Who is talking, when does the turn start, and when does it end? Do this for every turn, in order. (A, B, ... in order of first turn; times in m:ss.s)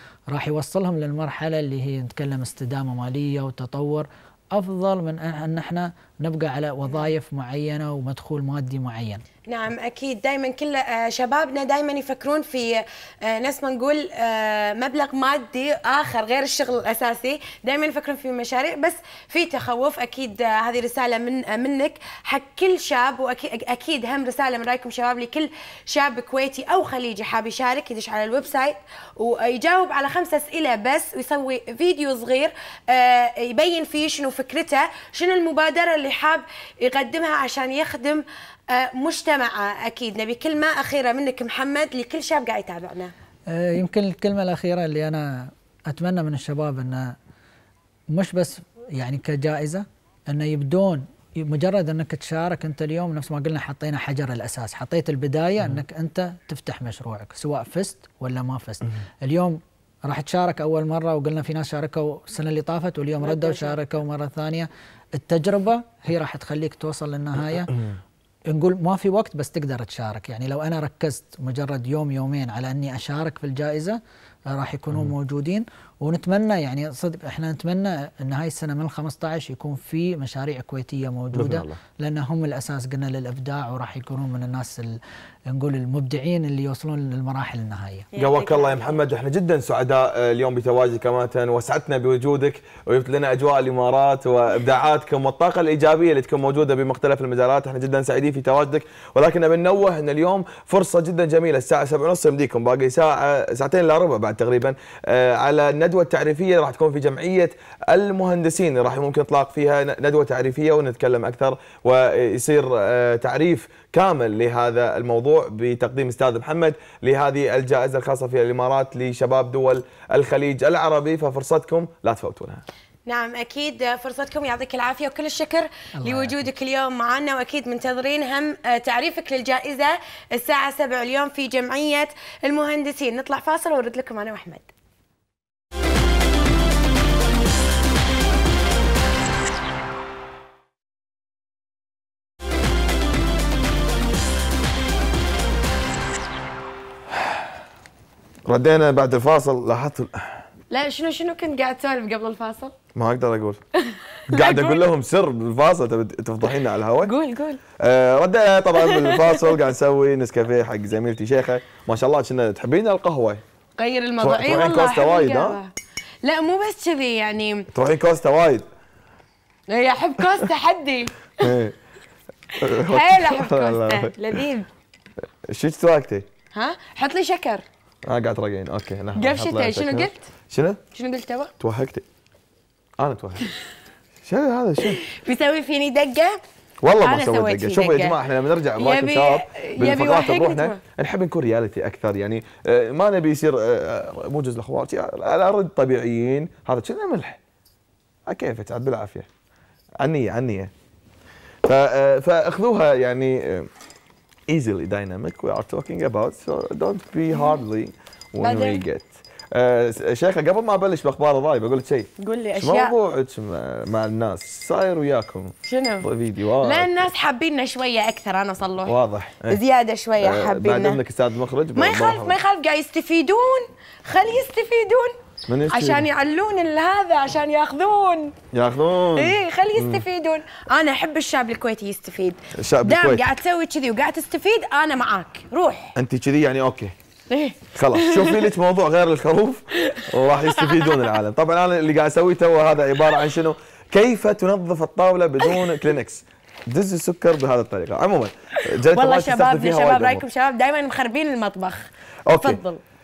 0:00.3-0:09.2 A
0:09.5-0:43.1 B
0:43.5-0:47.2 A
0:48.1-1:07.7 A
1:03.2-1:03.8 B
1:07.7-1:08.0 C
1:08.5-1:14.0 A
1:14.5-1:25.0 A
1:21.3-1:21.8 C
1:25.5-1:28.1 A
1:28.1-1:29.0 B
1:28.2-2:02.6 C
2:03.1-2:14.7 B
2:06.0-2:06.4 A
2:28.4-2:30.4 C
2:30.7-2:32.7 B
2:32.9-2:33.6 C
2:33.8-2:34.8 B
2:34.3-2:37.1 C
2:37.0-2:37.6 B
2:37.8-2:43.4 C
2:38.8-2:39.6 B
2:43.8-2:45.7 B
2:44.2-2:45.6 C
2:46.2-2:47.7 B
2:47.7-2:48.6 C
2:49.7-2:51.6 B
2:51.4-2:51.8 C
2:52.6-2:54.2 C
2:52.6-2:54.7 B
2:55.5-2:56.3 C
2:56.5-2:57.6 B
2:58.0-3:00.8 C
2:59.2-3:00.2 B
3:00.9-3:01.5 B
3:01.6-3:02.0 C
3:03.0-3:03.5 C
3:04.2-3:05.0 C
3:05.0-3:06.4 B
3:06.8-3:17.4 C
3:07.0-3:08.1 B
3:08.8-3:10.8 B
3:18.3-3:19.3 C
3:20.0-3:20.7 C
3:21.6-3:23.7 C
3:24.5-3:36.9 C
3:28.4-3:28.8 B
3:32.2-3:32.9 B
3:35.7-3:36.1 B
3:36.6-3:39.0 B
3:38.8-3:39.6 C
3:39.5-3:41.0 B
3:40.2-3:42.4 C
3:41.8-3:45.1 B
3:45.5-3:46.0 C
3:45.7-3:48.3 B
3:48.5-3:50.0 C
3:49.2-3:55.9 B
3:52.5-3:53.3 C
3:56.0-3:56.9 C
3:57.3-3:58.5 B
3:57.7-4:10.2 C
3:59.9-4:01.0 B
4:08.9-4:11.8 B
4:12.3-4:12.6 C
4:12.3-4:12.8 B